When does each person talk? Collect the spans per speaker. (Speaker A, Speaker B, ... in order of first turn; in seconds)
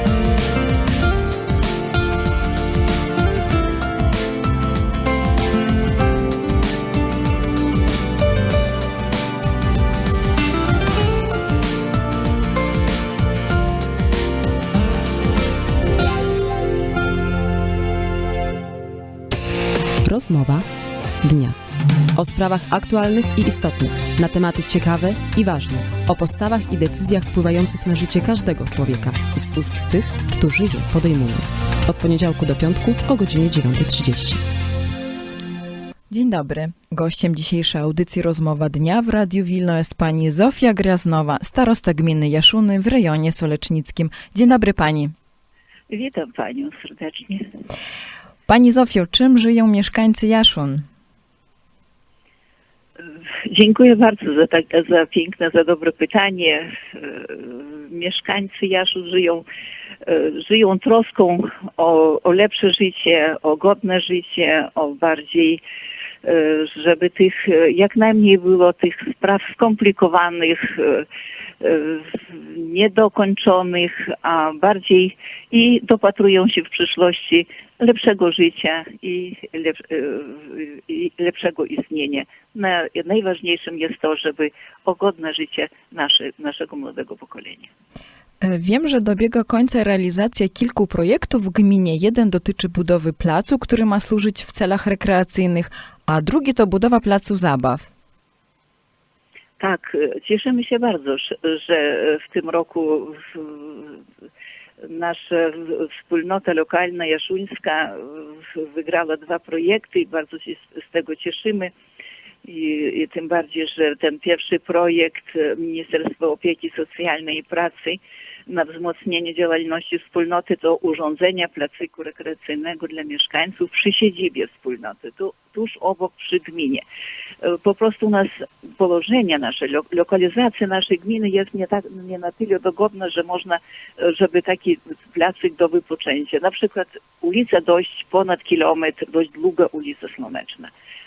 Speaker A: 20.0-20.7, 21.2-21.6, 22.1-34.4
Speaker B: 36.1-45.1, 48.5-50.9, 88.4-97.9
Speaker C: 45.9-47.5, 53.5-59.4, 60.0-65.6, 66.2-71.1, 71.6-87.7, 99.6-104.0, 104.8-111.7, 112.4-126.8, 127.4-140.7